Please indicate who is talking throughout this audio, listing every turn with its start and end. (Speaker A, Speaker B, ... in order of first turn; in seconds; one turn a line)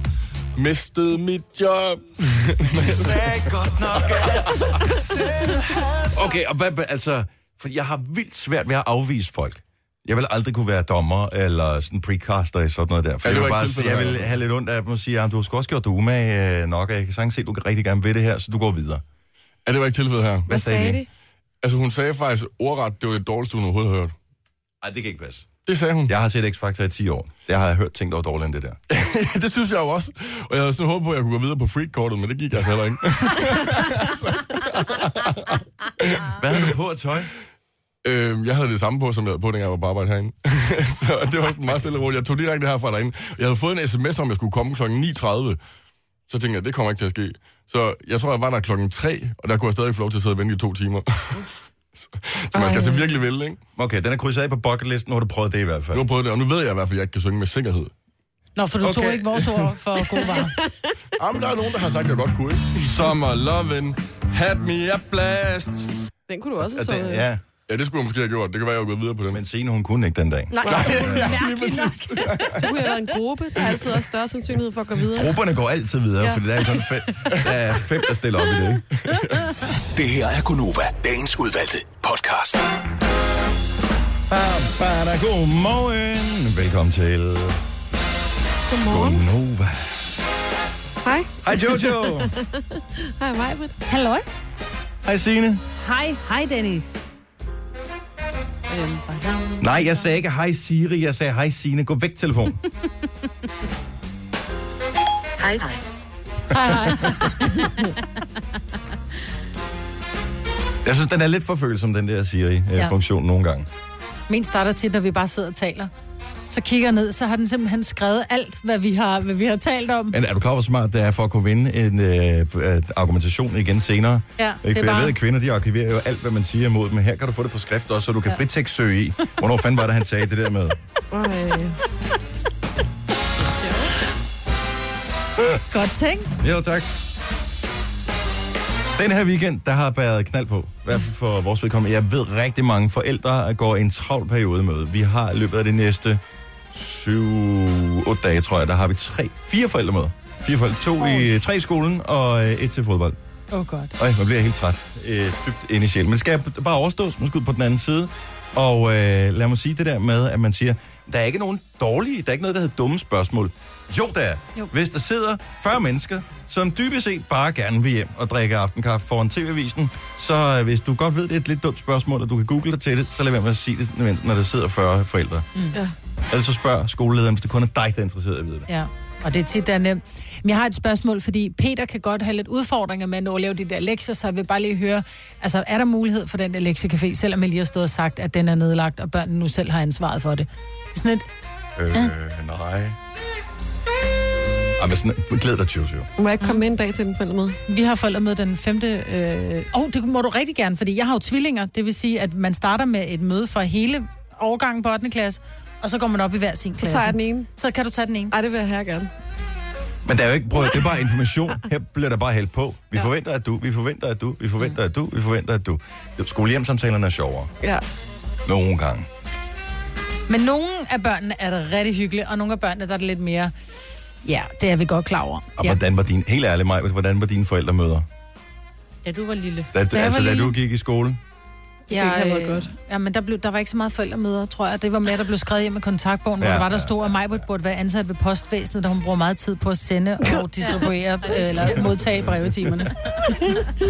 Speaker A: 0.6-3.3
Speaker B: 2.8-6.3
Speaker A: 4.3-4.9
Speaker C: 6.1-19.0
Speaker A: 13.2-14.3
Speaker A: 19.6-20.6
Speaker C: 20.5-21.0
Speaker D: 20.5-21.1
Speaker A: 21.6-24.1
Speaker C: 24.8-25.5
Speaker A: 25.6-26.1
Speaker C: 26.1-28.8
Speaker A: 28.9-36.4
Speaker C: 36.3-37.3
Speaker A: 38.0-45.6
Speaker A: 46.3-53.6
Speaker D: 52.5-53.1
Speaker C: 53.8-56.0
Speaker A: 55.9-57.9
Speaker E: 58.5-60.5
Speaker C: 58.8-59.7
Speaker A: 61.2-65.9
Speaker D: 66.3-67.2
Speaker C: 66.6-67.4
Speaker A: 67.7-69.4
Speaker C: 69.3-71.4
Speaker F: 70.5-72.4
Speaker A: 70.6-72.7
Speaker D: 72.5-75.3
Speaker C: 75.1-78.9
Speaker A: 79.0-79.5
Speaker G: 79.9-82.7
Speaker C: 84.3-87.6
Speaker D: 88.7-89.2
Speaker C: 88.8-90.0
Speaker D: 91.0-93.8
Speaker C: 91.4-92.3
Speaker E: 93.9-94.2
Speaker C: 95.0-95.6
Speaker F: 95.8-97.2
Speaker F: 98.7-100.0
Speaker C: 99.6-102.6
Speaker E: 106.5-107.7
Speaker C: 106.6-107.3
Speaker C: 110.8-113.7
Speaker E: 114.3-115.9
Speaker E: 116.5-120.2
Speaker C: 120.1-130.8
Speaker E: 124.4-125.2
Speaker D: 131.1-131.8
Speaker D: 133.6-133.9
Speaker E: 135.7-136.3
Speaker C: 136.4-136.9
Speaker C: 138.9-146.2
Speaker C: 146.7-153.2
Speaker E: 153.5-153.9
Speaker C: 154.0-175.5
Speaker C: 176.3-178.7
Speaker E: 178.7-191.2
Speaker C: 191.8-193.0
Speaker C: 194.8-196.1
Speaker D: 196.2-197.6
Speaker E: 197.7-208.3
Speaker D: 206.8-207.5
Speaker D: 208.3-209.1
Speaker C: 210.0-217.5
Speaker C: 218.4-219.1
Speaker E: 220.3-225.8
Speaker C: 225.6-228.1
Speaker F: 229.0-229.7
Speaker C: 229.7-231.2
Speaker E: 229.9-230.6
Speaker D: 231.9-232.7
Speaker E: 231.9-243.2
Speaker C: 236.4-237.4